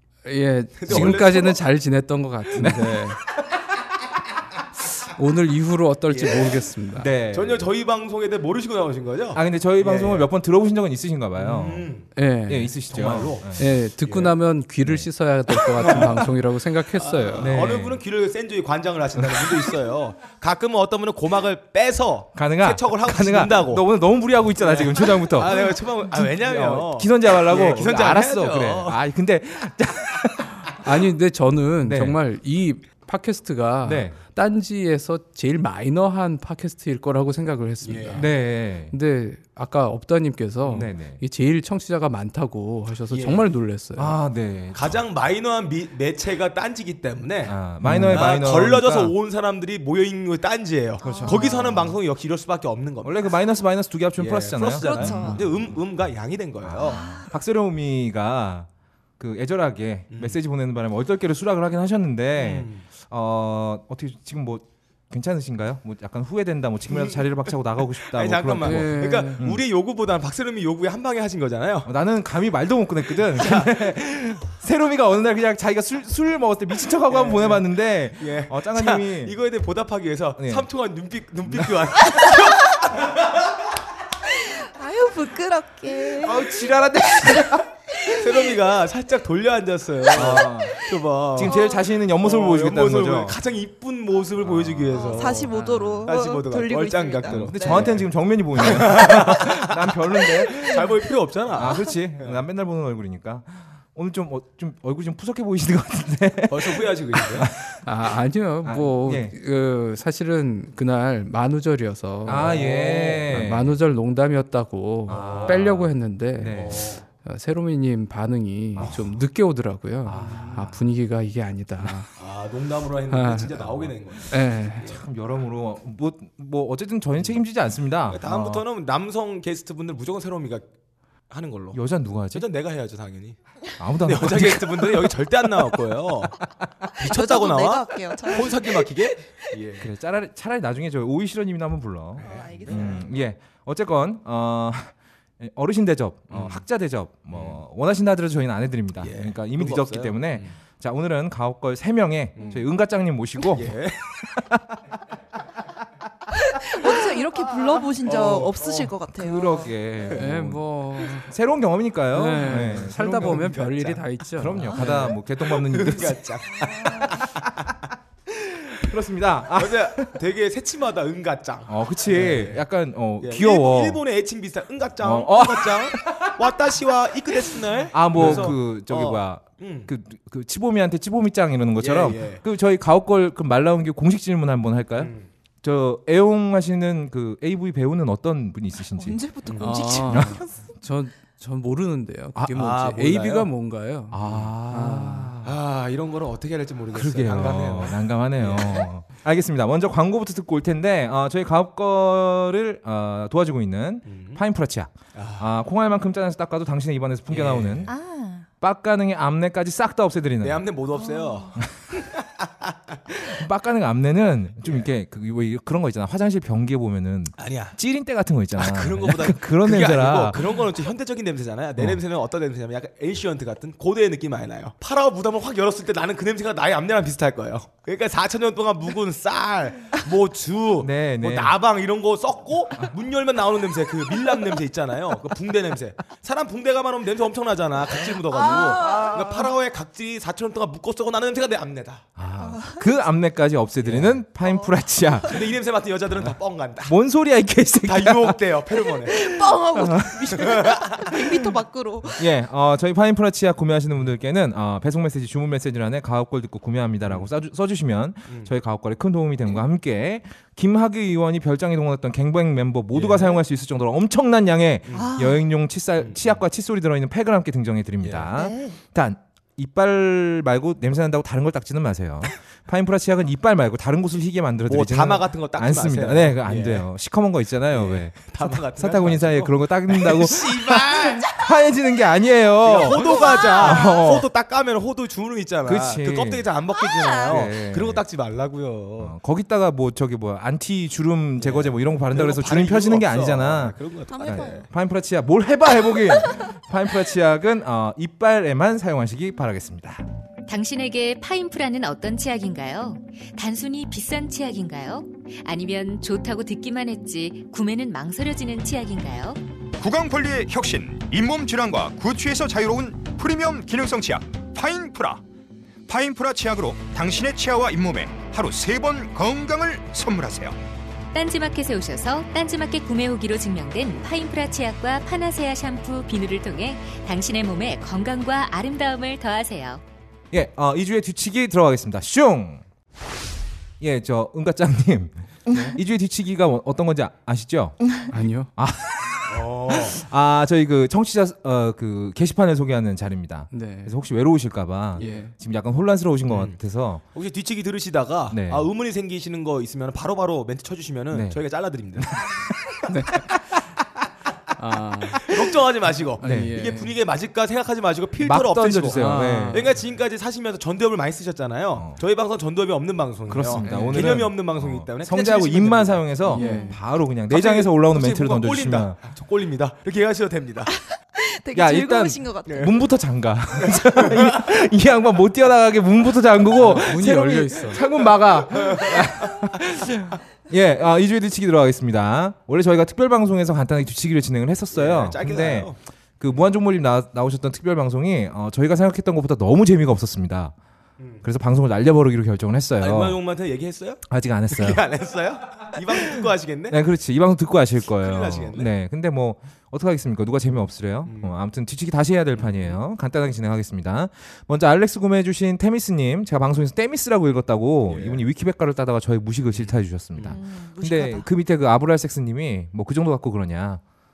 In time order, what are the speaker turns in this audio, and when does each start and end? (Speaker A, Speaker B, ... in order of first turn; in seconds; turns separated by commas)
Speaker A: 0.2-3.2, Speaker B: 0.8-1.6, Speaker C: 0.9-1.2, Speaker C: 2.6-2.9, Speaker B: 2.6-3.0, Speaker A: 4.8-7.1, Speaker B: 6.1-6.7, Speaker C: 6.9-7.7, Speaker B: 7.3-10.3, Speaker C: 9.3-11.9, Speaker B: 11.4-12.1, Speaker A: 12.2-12.9, Speaker C: 12.5-13.7, Speaker B: 12.9-14.4, Speaker A: 13.6-17.6, Speaker C: 14.8-15.1, Speaker B: 15.6-16.2, Speaker B: 16.9-23.9, Speaker C: 17.4-18.0, Speaker C: 19.2-19.6, Speaker C: 22.4-30.9, Speaker B: 24.6-29.0, Speaker A: 30.7-38.4, Speaker C: 31.8-32.2, Speaker C: 33.9-34.2, Speaker B: 37.8-38.3, Speaker C: 38.1-38.9, Speaker A: 38.9-44.2, Speaker B: 40.6-40.9, Speaker C: 40.7-41.2, Speaker B: 43.1-43.5, Speaker C: 44.0-45.0, Speaker B: 44.7-53.2, Speaker C: 47.5-49.1, Speaker A: 47.8-48.3, Speaker D: 51.0-51.5, Speaker C: 51.2-52.0, Speaker C: 53.0-55.7, Speaker B: 54.2-57.0, Speaker D: 54.8-55.4, Speaker C: 56.6-58.7, Speaker D: 56.9-57.3, Speaker C: 59.2-69.6, Speaker B: 60.1-60.4, Speaker B: 62.4-62.8, Speaker B: 66.9-71.9, Speaker A: 68.6-69.4, Speaker C: 71.9-79.4, Speaker B: 73.2-73.7, Speaker B: 77.1-77.6, Speaker B: 78.2-83.4, Speaker C: 80.4-80.7, Speaker C: 81.5-81.9, Speaker D: 84.3-86.7, Speaker C: 86.2-87.7, Speaker D: 87.4-88.4, Speaker B: 88.1-91.6, Speaker C: 90.1-93.4, Speaker D: 91.4-91.9, Speaker B: 92.2-102.4, Speaker C: 94.4-96.1, Speaker D: 94.9-97.9, Speaker C: 97.3-100.9, Speaker C: 101.5-107.8, Speaker B: 106.5-107.5, Speaker A: 107.8-122.1, Speaker C: 108.6-109.3, Speaker C: 112.2-113.8, Speaker B: 112.3-113.2, Speaker C: 115.1-116.8, Speaker B: 115.1-115.7, Speaker B: 116.5-117.0, Speaker C: 118.8-119.0, Speaker B: 118.8-119.1, Speaker C: 120.0-120.8, Speaker B: 122.2-125.0, Speaker A: 123.1-123.6, Speaker A: 124.3-124.9, Speaker C: 124.8-128.6, Speaker B: 128.1-130.7, Speaker B: 131.3-133.4, Speaker C: 131.7-132.4, Speaker C: 133.8-135.5, Speaker B: 134.0-136.4, Speaker B: 136.9-139.9, Speaker D: 137.0-139.1, Speaker C: 139.8-154.7, Speaker B: 142.2-143.1, Speaker D: 142.2-143.2, Speaker B: 146.3-146.7, Speaker B: 147.3-147.6, Speaker B: 149.0-150.6, Speaker B: 152.3-152.7, Speaker B: 153.5-154.2, Speaker D: 156.5-159.7, Speaker B: 158.0-158.9, Speaker C: 159.2-163.5, Speaker A: 160.1-161.3, Speaker A: 162.1-165.2, Speaker B: 162.7-164.0, Speaker C: 164.4-166.2, Speaker B: 164.8-167.7, Speaker D: 166.6-167.2, Speaker C: 167.0-167.7, Speaker C: 168.3-170.2, Speaker B: 169.6-172.7, Speaker C: 171.7-174.0, Speaker B: 173.2-179.9, Speaker C: 175.0-176.3, Speaker C: 177.9-189.2, Speaker B: 181.8-182.4, Speaker B: 185.0-185.3, Speaker D: 188.9-190.7, Speaker B: 189.5-189.8, Speaker A: 189.6-194.2, Speaker C: 190.1-190.4, Speaker B: 192.5-193.5, Speaker C: 194.1-195.6, Speaker A: 194.7-195.4, Speaker B: 195.4-198.9, Speaker C: 196.9-207.9, Speaker B: 204.1-204.4, Speaker B: 205.1-205.5, Speaker B: 207.3-207.9, Speaker D: 207.9-208.5, Speaker C: 208.6-210.6, Speaker B: 210.4-213.0, Speaker D: 211.0-211.6, Speaker C: 213.1-220.4, Speaker B: 214.6-214.9, Speaker B: 217.4-217.8, Speaker B: 218.6-242.0, Speaker C: 230.8-231.6, Speaker D: 238.3-239.5, Speaker C: 242.2-245.5, Speaker D: 242.4-242.9, Speaker B: 243.8-244.2, Speaker D: 244.4-244.7, Speaker B: 245.2-246.9, Speaker C: 246.2-248.4, Speaker B: 247.8-249.2, Speaker D: 249.0-252.2, Speaker C: 249.7-250.6, Speaker B: 250.6-251.1, Speaker C: 252.2-284.3, Speaker B: 258.3-258.5, Speaker B: 262.9-263.4, Speaker B: 264.9-265.1, Speaker D: 264.9-265.5, Speaker B: 266.0-266.4, Speaker B: 268.0-268.3, Speaker D: 268.4-268.8, Speaker B: 274.7-276.9, Speaker B: 277.7-281.3, Speaker B: 282.6-289.1, Speaker D: 282.9-284.1, Speaker C: 285.6-286.5, Speaker D: 286.8-287.4, Speaker C: 287.3-288.0, Speaker C: 289.0-300.0, Speaker B: 291.4-294.7, Speaker D: 294.1-294.7, Speaker E: 300.5-309.4, Speaker F: 309.8-315.2, Speaker F: 315.9-320.6, Speaker E: 321.1-329.8, Speaker C: 330.3-332.6, Speaker C: 333.8-337.9, Speaker A: 335.5-335.8, Speaker A: 338.1-338.5, Speaker C: 338.6-347.0, Speaker B: 339.3-340.0, Speaker A: 343.5-343.9, Speaker B: 345.0-345.2, Speaker A: 345.0-345.3, Speaker B: 346.3-346.6, Speaker B: 347.1-352.1, Speaker C: 348.3-348.7, Speaker C: 351.1-351.4, Speaker C: 352.0-352.6, Speaker A: 352.9-353.3, Speaker A: 354.6-355.3, Speaker B: 355.2-366.6, Speaker A: 356.2-357.0, Speaker C: 356.2-356.5, Speaker C: 358.2-359.7, Speaker A: 358.9-359.7, Speaker C: 361.8-362.0, Speaker C: 363.3-369.0, Speaker A: 363.6-364.3, Speaker A: 366.3-366.8, Speaker D: 366.4-366.8, Speaker B: 367.3-370.7, Speaker D: 370.9-372.8, Speaker C: 371.5-390.5, Speaker B: 372.5-372.7, Speaker B: 373.6-374.4, Speaker A: 376.5-377.8, Speaker B: 377.9-379.3, Speaker B: 384.7-385.8, Speaker B: 391.0-391.2, Speaker C: 391.2-393.2, Speaker B: 392.8-396.8, Speaker C: 394.1-394.8, Speaker C: 396.0-413.8, Speaker B: 397.9-398.7, Speaker B: 401.1-401.3, Speaker B: 402.4-402.8, Speaker B: 407.9-408.2, Speaker B: 409.5-410.4, Speaker D: 410.3-411.3